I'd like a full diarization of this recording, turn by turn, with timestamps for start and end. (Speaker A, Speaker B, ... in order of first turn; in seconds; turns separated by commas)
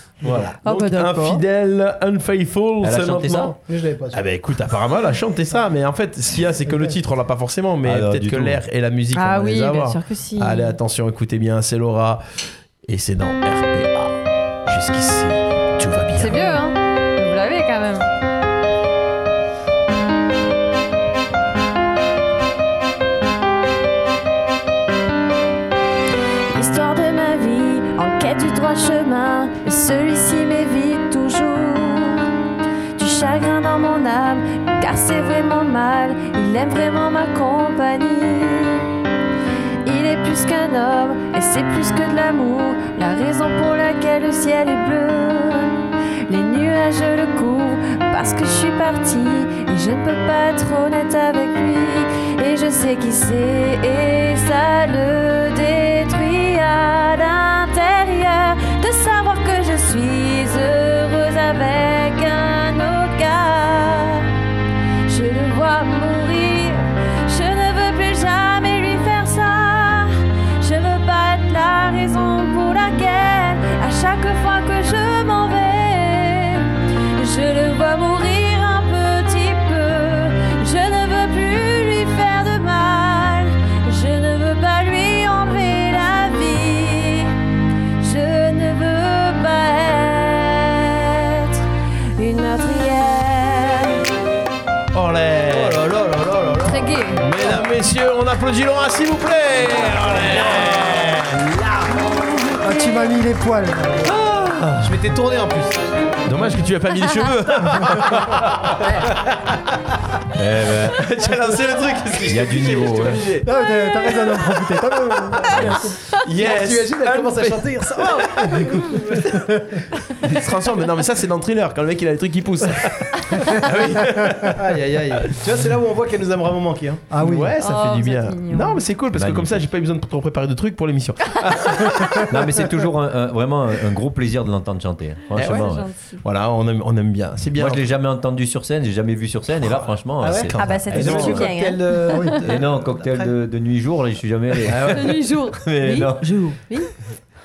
Speaker A: 0.2-3.6, Speaker B: 0.6-1.4, Speaker C: 2.8-3.5, Speaker D: 3.7-4.2, Speaker A: 4.1-16.6, Speaker C: 7.8-8.6, Speaker B: 9.1-10.8, Speaker B: 16.2-18.1, Speaker B: 26.5-32.3, Speaker B: 33.0-38.9, Speaker B: 39.8-64.3, Speaker B: 65.1-87.3, Speaker B: 88.0-91.7, Speaker B: 92.2-94.1, Speaker A: 94.9-101.7, Speaker D: 95.5-96.0, Speaker B: 96.6-97.2, Speaker D: 100.0-101.2, Speaker E: 102.6-104.2, Speaker C: 104.1-104.9, Speaker D: 104.8-105.8, Speaker A: 106.3-109.1, Speaker C: 110.3-111.0, Speaker A: 110.9-113.5, Speaker C: 112.3-113.4, Speaker E: 113.4-116.0, Speaker A: 115.2-119.4, Speaker D: 116.4-119.5, Speaker A: 120.2-124.6, Speaker D: 124.4-127.1, Speaker E: 127.1-127.5, Speaker A: 127.2-132.4, Speaker B: 127.6-128.9, Speaker C: 129.1-129.6, Speaker C: 132.3-135.9, Speaker A: 135.4-135.7, Speaker B: 135.4-136.2, Speaker A: 136.2-137.8, Speaker C: 137.6-141.5, Speaker A: 139.6-141.3, Speaker D: 140.2-143.3, Speaker B: 140.6-142.5, Speaker E: 142.1-142.3, Speaker C: 142.4-146.3, Speaker A: 144.7-145.2, Speaker B: 144.8-146.9